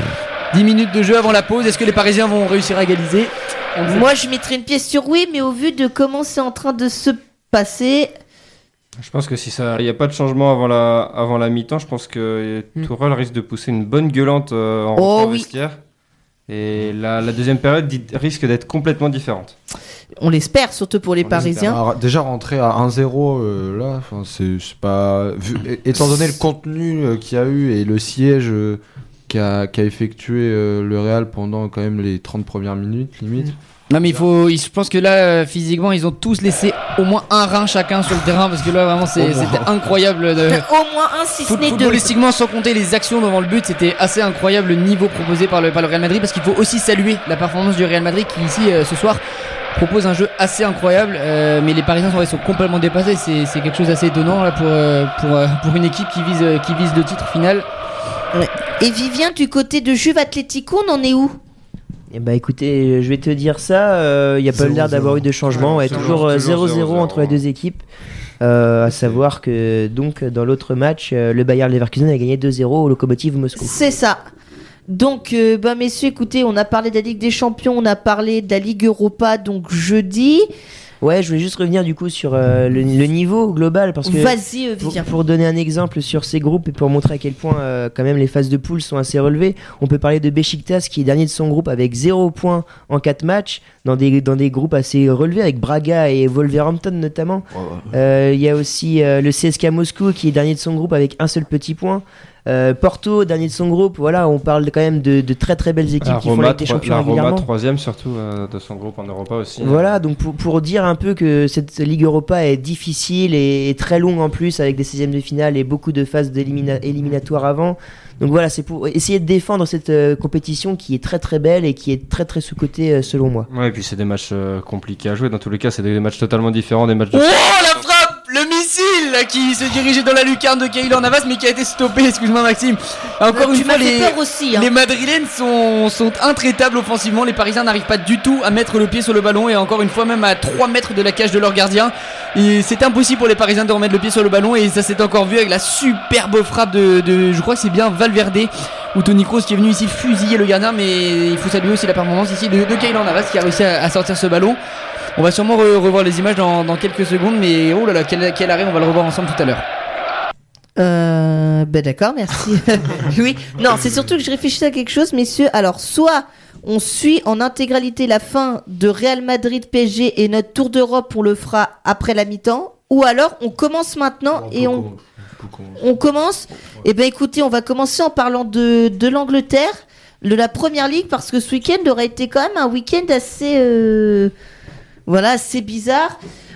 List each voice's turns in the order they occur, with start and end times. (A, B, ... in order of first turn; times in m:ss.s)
0:00.5-0:04.1 A
0:03.9-0:08.1 B
0:09.0-0:15.8 C
0:15.0-0:15.5 B
0:16.5-0:19.6 C
0:20.2-0:21.8 B
0:21.3-0:21.6 C
0:21.3-0:34.3 D
0:33.9-0:40.6 A
0:39.1-0:39.8 D
0:40.4-0:42.1 B
0:41.4-0:49.2 A
0:49.7-0:57.7 A
0:58.3-1:01.4 B
1:02.1-1:07.8 E
1:04.5-1:06.2 D
1:05.5-1:07.4 C
1:08.4-1:13.8 E
1:08.9-1:09.2 D
1:13.6-1:14.2 B
1:14.9-1:20.5 B
1:21.0-1:47.5 E
1:24.0-1:25.1 B
1:37.5-1:37.9 D
1:46.0-1:50.0 C
1:49.6-2:03.5 E
2:03.5-2:07.8 C
2:07.1-2:34.6 A
2:13.3-2:14.7 B
2:35.2-2:39.6 A
2:40.8-2:54.8 B
2:54.3-2:56.0 D
2:55.8-3:04.3 B
3:05.1-3:06.2 B